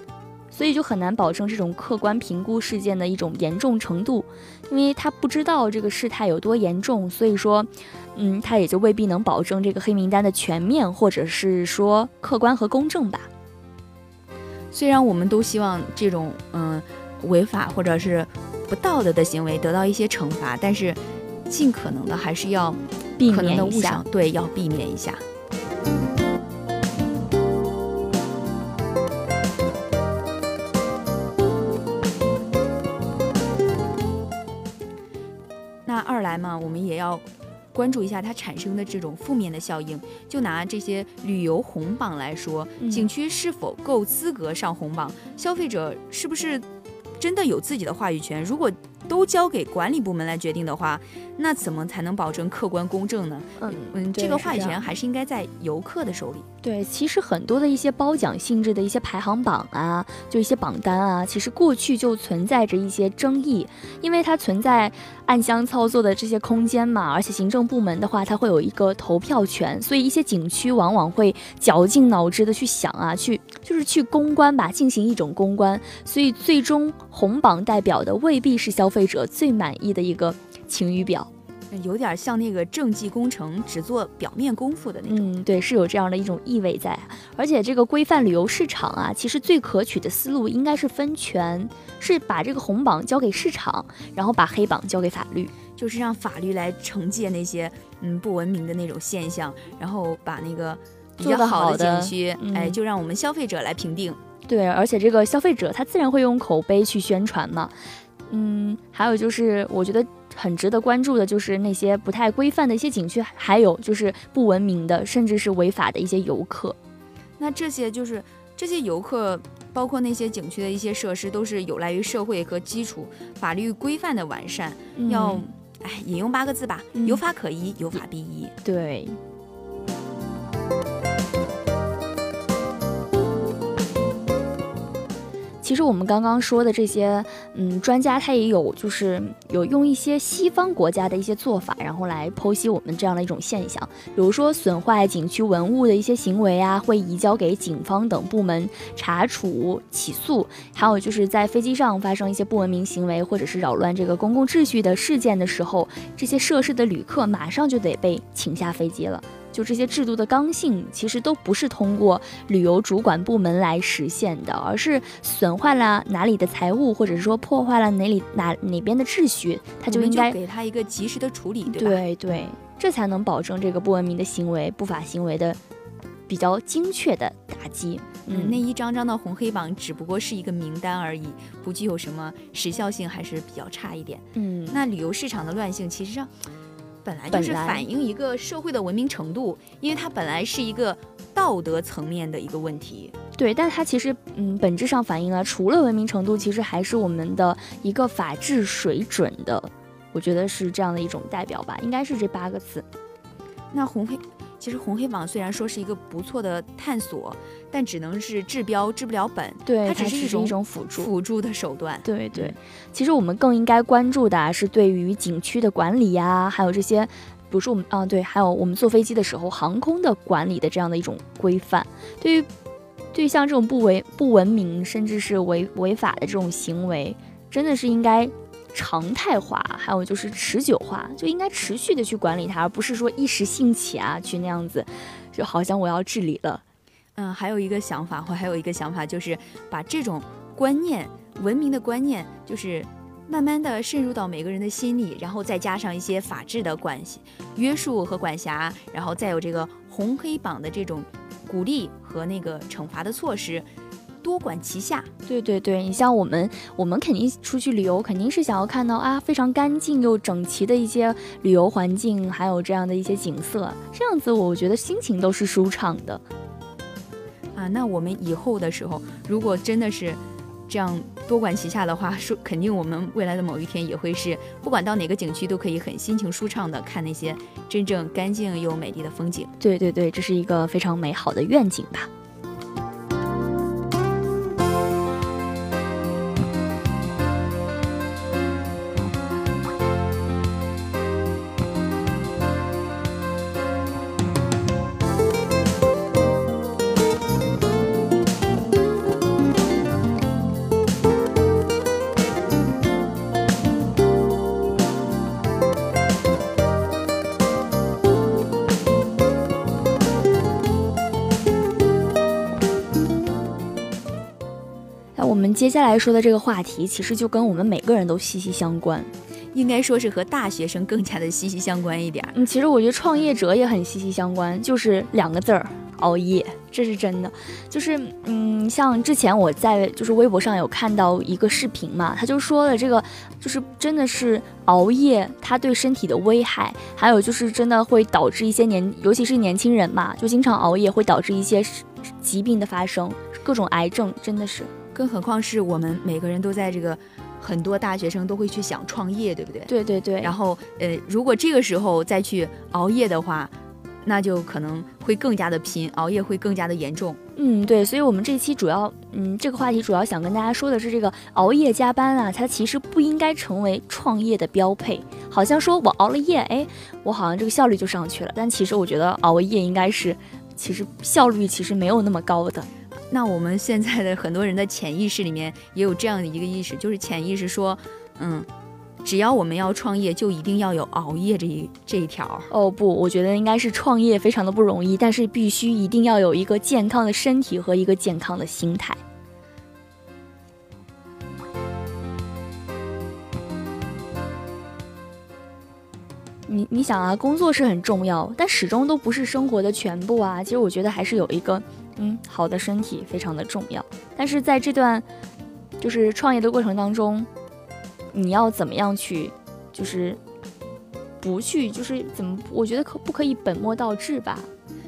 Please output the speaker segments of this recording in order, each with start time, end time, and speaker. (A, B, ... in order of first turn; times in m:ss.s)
0:00.5-0:13.3 A
0:14.7-0:25.2 B
0:23.2-0:24.0 A
0:35.8-0:46.6 B
0:42.8-0:43.1 A
0:47.2-0:56.4 B
0:53.6-0:54.8 A
0:56.6-1:21.3 A
1:21.7-1:25.3 B
1:25.1-1:35.5 A
1:35.8-1:44.2 B
1:41.2-1:42.8 A
1:44.5-1:47.8 A
1:48.3-1:56.8 A
1:57.4-2:08.5 B
2:04.9-2:05.4 A
2:06.9-2:07.2 A
2:08.6-2:09.2 A
2:15.6-2:50.4 A
2:49.8-2:52.0 B
2:51.7-2:55.6 A
2:56.3-2:58.6 A
2:58.3-3:06.3 B
3:04.4-3:04.8 A
3:07.0-3:13.1 B
3:07.3-3:07.8 A
3:13.4-3:22.8 A
3:23.7-3:32.6 B
3:29.6-3:31.1 A
3:32.0-3:42.5 A
3:43.1-3:56.6 A
3:57.2-4:13.7 B
4:14.2-4:15.1 B
4:15.3-4:26.2 A
4:27.5-4:39.5 B
4:39.6-4:42.1 A
5:15.2-5:19.1 A
5:19.5-5:22.3 B
5:22.3-5:44.7 A
5:44.9-5:49.7 B
5:49.7-5:50.4 A
5:50.2-5:57.2 B
5:57.4-6:12.7 A
6:13.1-6:18.5 B
6:19.0-6:22.5 B
6:22.5-6:29.0 A
6:36.5-6:45.0 A
6:45.8-6:47.3 A
6:48.1-6:50.2 A
6:51.2-6:54.5 A